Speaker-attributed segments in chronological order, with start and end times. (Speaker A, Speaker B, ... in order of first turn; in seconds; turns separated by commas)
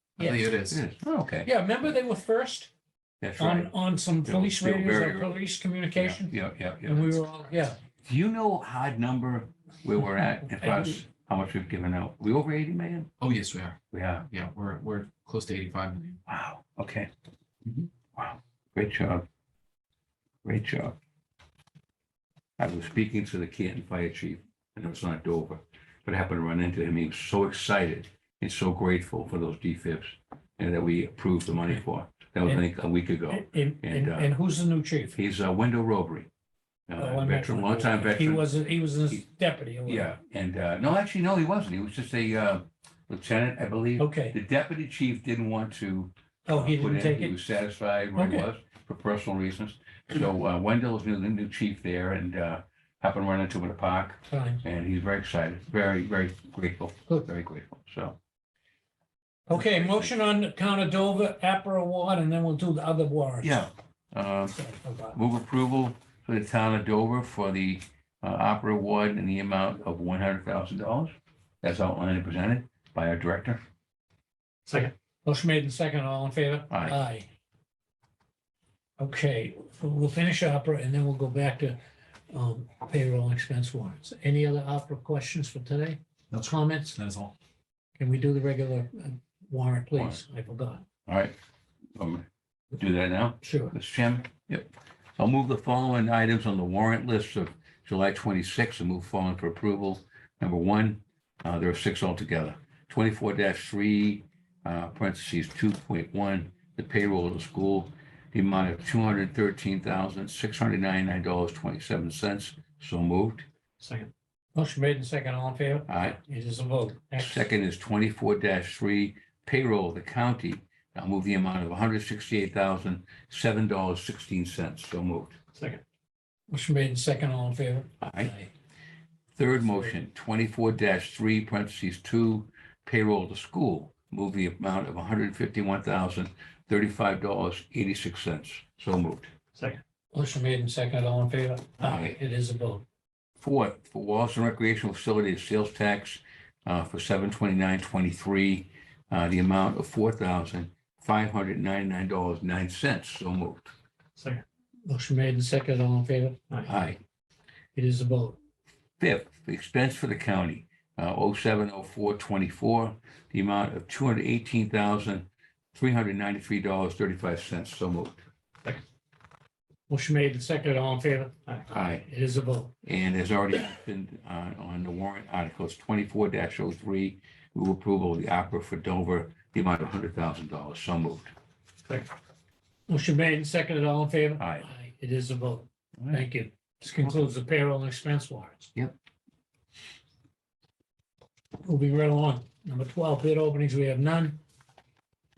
Speaker A: 0.2-0.8, Speaker B: 0.2-0.4, Speaker C: 0.7-1.5, Speaker B: 1.4-2.7, Speaker C: 3.2-3.7, Speaker B: 3.4-7.8, Speaker C: 4.2-5.3, Speaker C: 5.9-7.2, Speaker C: 8.0-13.1, Speaker B: 10.4-10.9, Speaker A: 13.2-16.2, Speaker C: 13.9-14.3, Speaker C: 16.3-17.1, Speaker C: 17.7-19.2, Speaker C: 20.4-21.0, Speaker C: 22.6-34.3, Speaker B: 33.3-35.2, Speaker C: 35.1-36.3, Speaker C: 36.9-38.5, Speaker B: 37.0-40.1, Speaker C: 39.9-58.2, Speaker B: 44.0-44.4, Speaker B: 46.5-47.3, Speaker B: 48.1-48.5, Speaker B: 54.3-54.6, Speaker B: 59.5-63.7, Speaker C: 59.5-60.1, Speaker C: 63.4-64.6, Speaker B: 64.5-65.2, Speaker C: 65.1-73.6, Speaker B: 74.7-77.3, Speaker C: 76.7-77.0, Speaker B: 79.0-81.8, Speaker B: 82.3-86.9, Speaker A: 86.3-87.3, Speaker B: 88.0-90.8, Speaker C: 91.0-91.3, Speaker C: 92.0-113.5, Speaker B: 93.4-93.7, Speaker B: 114.5-117.5, Speaker C: 115.9-116.2, Speaker C: 117.2-125.4, Speaker B: 126.5-128.5, Speaker C: 128.0-128.3, Speaker C: 129.3-139.3, Speaker B: 140.1-142.8, Speaker C: 141.8-142.2, Speaker C: 143.4-153.7, Speaker B: 154.8-156.7, Speaker C: 156.6-157.0, Speaker B: 157.7-158.4, Speaker C: 159.0-168.2, Speaker B: 169.9-172.7, Speaker C: 171.7-172.1, Speaker C: 172.8-181.3, Speaker B: 182.9-188.7, Speaker C: 184.4-184.7, Speaker B: 191.6-194.4